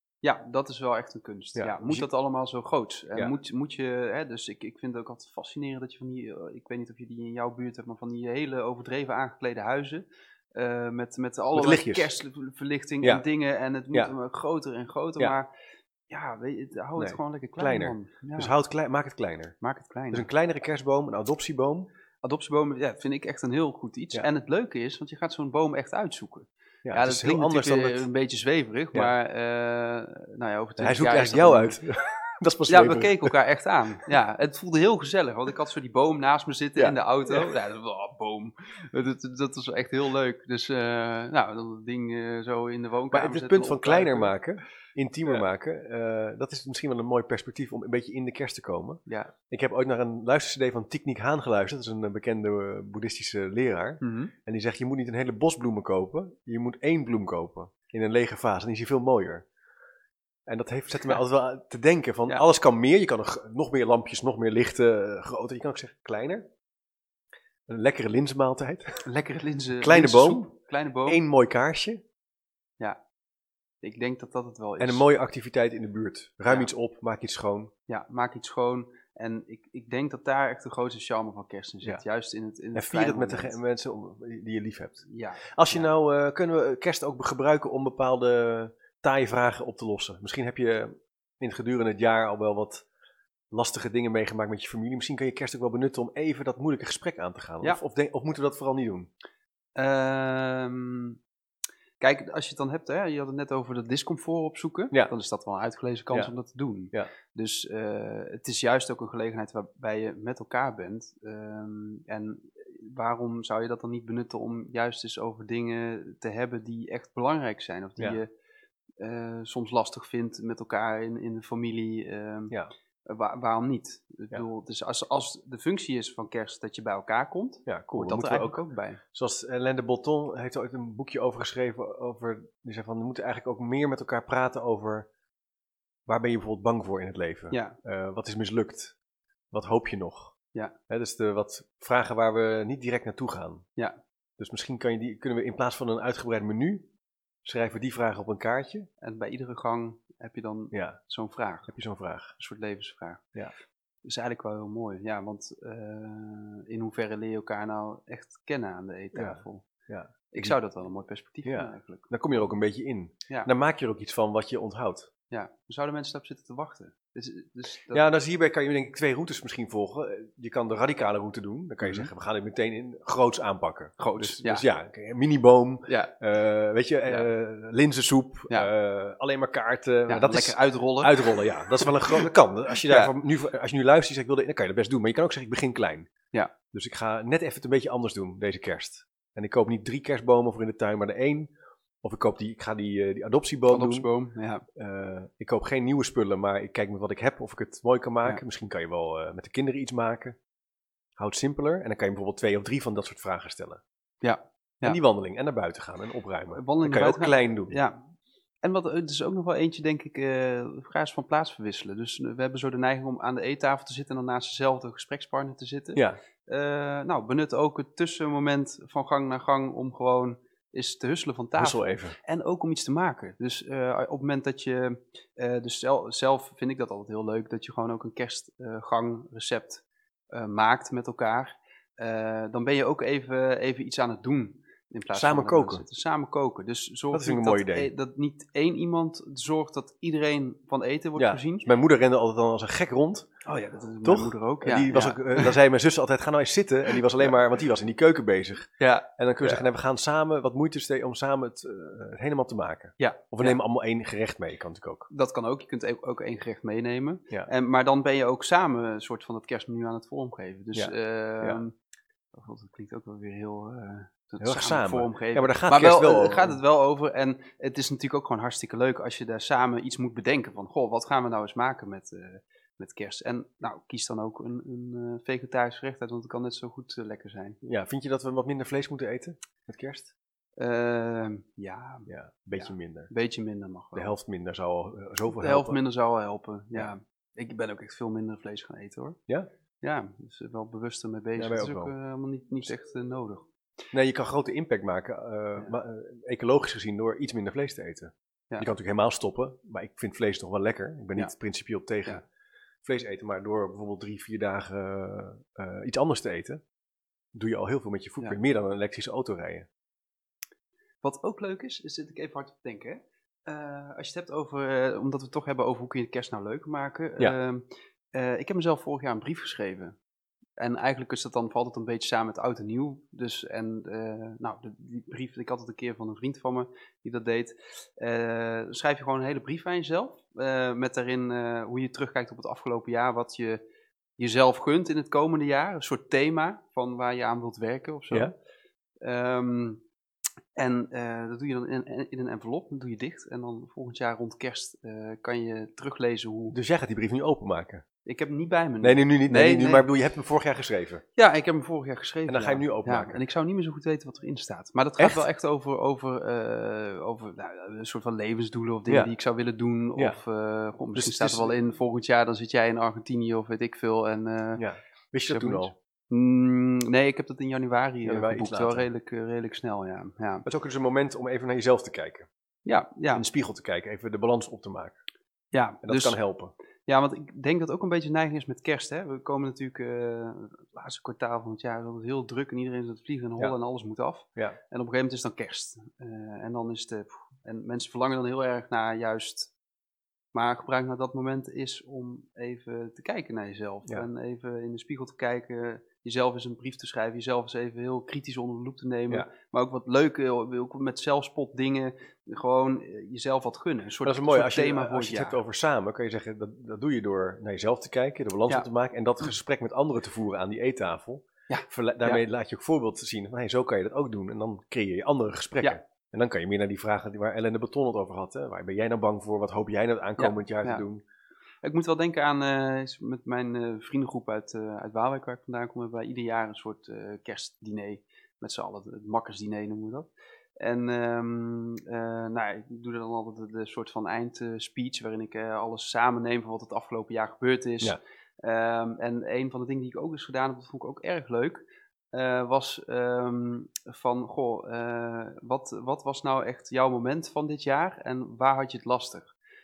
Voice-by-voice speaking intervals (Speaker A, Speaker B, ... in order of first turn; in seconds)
Speaker A: 0.2-15.5, 16.1-18.5, 19.6-20.3, 22.2-31.8, 32.7-44.3, 49.1-49.3, 54.0-54.3, 69.0-71.2, 73.8-75.0, 77.9-83.6, 85.1-85.9, 99.8-101.2, 102.0-118.3, 119.0-122.5, 123.0-129.0, 137.5-137.8, 149.0-151.7, 152.4-153.2, 154.0-159.7, 160.3-162.1, 165.3-168.0, 171.8-172.1, 174.0-174.7, 175.9-176.1, 180.1-182.3, 182.8-183.1, 193.7-194.7, 204.2-205.0, 206.5-208.0, 208.6-241.7, 243.4-245.6, 246.9-247.3, 248.8-249.6, 253.0-253.6, 255.1-261.7, 262.3-277.6, 280.6-284.1, 285.3-289.2, 289.8-293.5, 311.0-320.0, 320.6-333.6, 334.2-338.3, 339.0-339.8, 340.6-346.6, 348.1-349.9, 351.2-364.6, 365.2-370.5, 372.6-373.2, 375.5-376.2, 376.9-389.5, 390.3-405.4, 411.5-412.2, 420.2-420.9, 421.6-441.6, 442.1-449.3
Speaker B: 1.6-2.1, 11.5-12.1, 17.0-19.6, 20.1-21.9, 26.9-28.1, 30.8-33.4, 36.8-37.5, 43.1-59.5, 60.5-66.5, 67.7-69.0, 69.8-70.5, 71.1-72.0, 74.8-77.7, 82.8-92.9, 93.5-99.1, 127.7-128.6, 129.1-135.1, 136.1-139.0, 139.5-140.3, 140.9-143.7, 144.4-146.9, 147.4-148.9, 150.7-151.0, 151.7-152.3, 159.2-160.6, 161.4-165.1, 167.9-186.1, 186.7-194.1, 194.8-200.4, 201.2-203.8, 204.8-207.8, 221.6-222.2, 235.1-235.8, 237.1-237.9, 241.2-243.3, 244.0-255.1, 260.7-261.6, 264.4-266.6, 277.6-280.1, 282.1-283.1, 283.9-285.8, 291.4-291.9, 293.9-302.2, 302.8-306.6, 307.3-309.7, 346.5-347.8, 348.8-351.0, 352.3-353.2, 355.0-355.2, 360.9-361.6, 364.6-365.8, 368.0-368.9, 370.4-372.3, 373.1-375.0, 375.8-376.5, 404.0-421.0